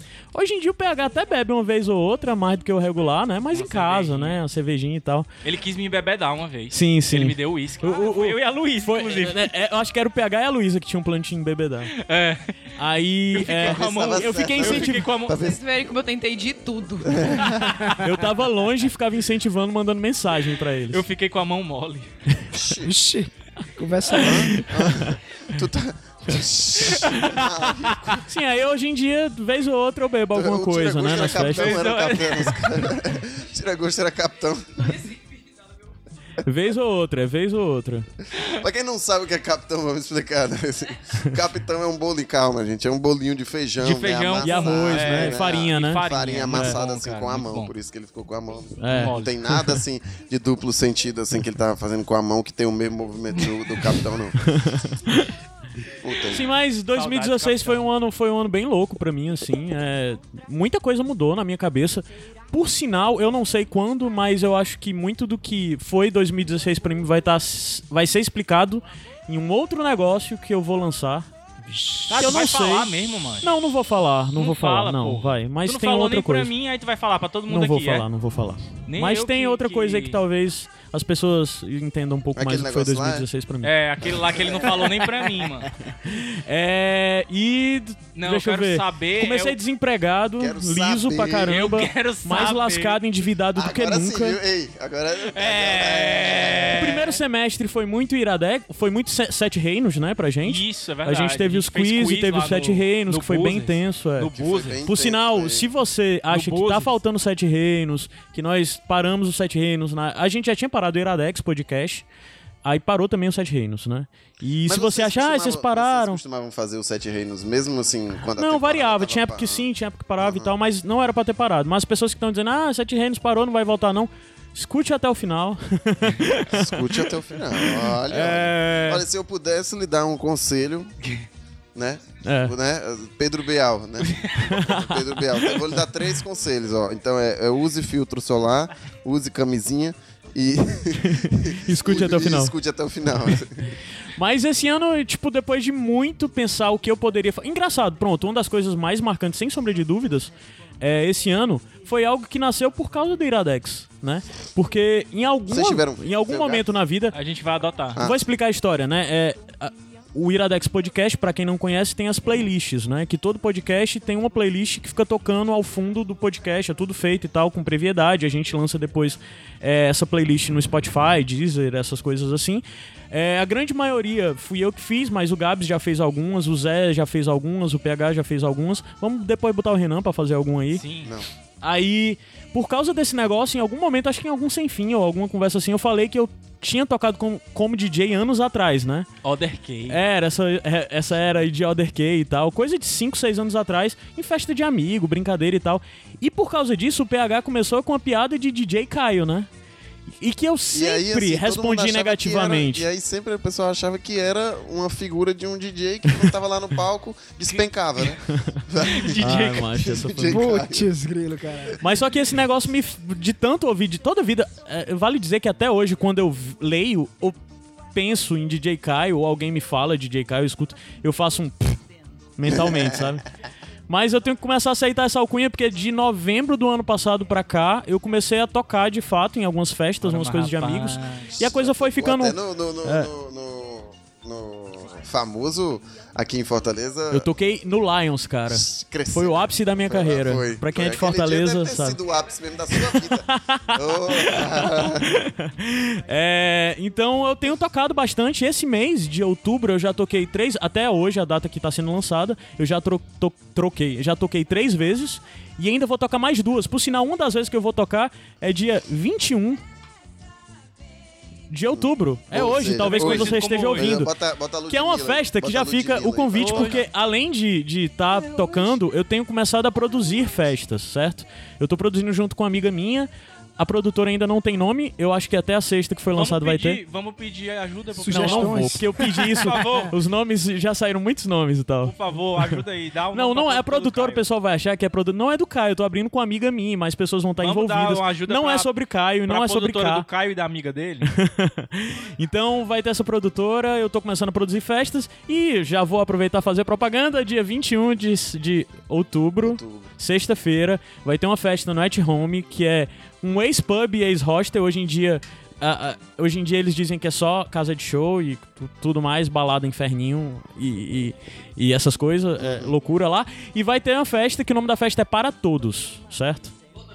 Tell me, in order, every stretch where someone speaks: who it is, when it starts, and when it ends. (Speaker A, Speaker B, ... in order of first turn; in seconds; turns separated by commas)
Speaker A: 0.3-5.3, Speaker B: 3.5-4.4, Speaker B: 5.4-9.5, Speaker A: 6.7-11.9, Speaker B: 11.9-12.6, Speaker A: 12.8-15.1, Speaker B: 13.3-15.4, Speaker C: 13.6-15.6, Speaker D: 15.3-17.6, Speaker C: 17.0-17.7, Speaker A: 17.9-21.0, Speaker B: 20.9-22.1, Speaker C: 22.5-22.9, Speaker E: 22.8-24.6, Speaker C: 24.2-28.2, Speaker A: 24.2-25.2, Speaker B: 26.9-27.4, Speaker A: 26.9-27.3, Speaker A: 28.2-31.9, Speaker C: 30.3-35.0, Speaker B: 31.5-32.7, Speaker A: 36.4-38.1, Speaker C: 38.4-54.5, Speaker B: 43.8-47.7, Speaker A: 44.4-46.8, Speaker A: 48.8-49.8, Speaker B: 48.9-49.3, Speaker A: 54.4-55.3, Speaker C: 56.0-56.4, Speaker A: 56.3-71.3, Speaker B: 56.9-57.9, Speaker A: 72.1-76.5, Speaker B: 72.1-73.5, Speaker B: 74.4-78.0, Speaker A: 77.5-83.7, Speaker B: 78.8-80.2, Speaker C: 82.3-83.2, Speaker B: 83.6-85.7, Speaker C: 84.4-84.7, Speaker A: 86.0-94.4, Speaker B: 88.1-89.6, Speaker C: 90.4-91.6, Speaker B: 91.5-93.0, Speaker C: 93.5-96.9, Speaker B: 95.3-97.2, Speaker A: 96.8-104.3, Speaker B: 100.4-104.8, Speaker C: 104.3-105.7, Speaker A: 104.8-112.0, Speaker B: 106.3-107.0, Speaker A: 112.6-116.2, Speaker C: 114.7-119.6, Speaker A: 118.4-127.1, Speaker C: 120.2-120.5, Speaker C: 126.5-130.9, Speaker B: 128.1-129.0, Speaker C: 131.7-143.7, Speaker A: 132.2-132.5, Speaker A: 134.4-135.6, Speaker A: 141.0-142.5, Speaker A: 144.2-157.2, Speaker C: 155.5-156.6, Speaker B: 157.1-158.0, Speaker A: 157.9-180.8, Speaker B: 180.7-181.1, Speaker A: 181.6-189.1, Speaker B: 189.2-190.0, Speaker A: 189.9-199.5, Speaker A: 200.2-202.8, Speaker C: 200.7-210.9, Speaker B: 208.8-209.7, Speaker A: 209.2-210.4, Speaker E: 210.3-211.8, Speaker A: 211.8-217.4, Speaker A: 217.9-221.8, Speaker A: 222.4-223.2, Speaker C: 222.5-223.1, Speaker A: 223.9-233.1, Speaker B: 230.0-231.3, Speaker C: 231.4-237.3, Speaker A: 237.1-242.0, Speaker C: 238.5-245.2, Speaker A: 242.7-259.6, Speaker A: 261.5-264.1, Speaker C: 261.7-266.8, Speaker B: 262.8-264.0, Speaker A: 264.7-276.8, Speaker B: 266.4-266.8, Speaker B: 276.1-278.7, Speaker E: 278.0-279.7, Speaker A: 278.1-282.6, Speaker B: 279.4-279.9, Speaker B: 281.8-284.2, Speaker A: 283.1-290.1, Speaker B: 287.4-288.7, Speaker B: 289.2-291.1, Speaker A: 291.0-316.5, Speaker C: 299.4-299.9, Speaker C: 312.4-312.7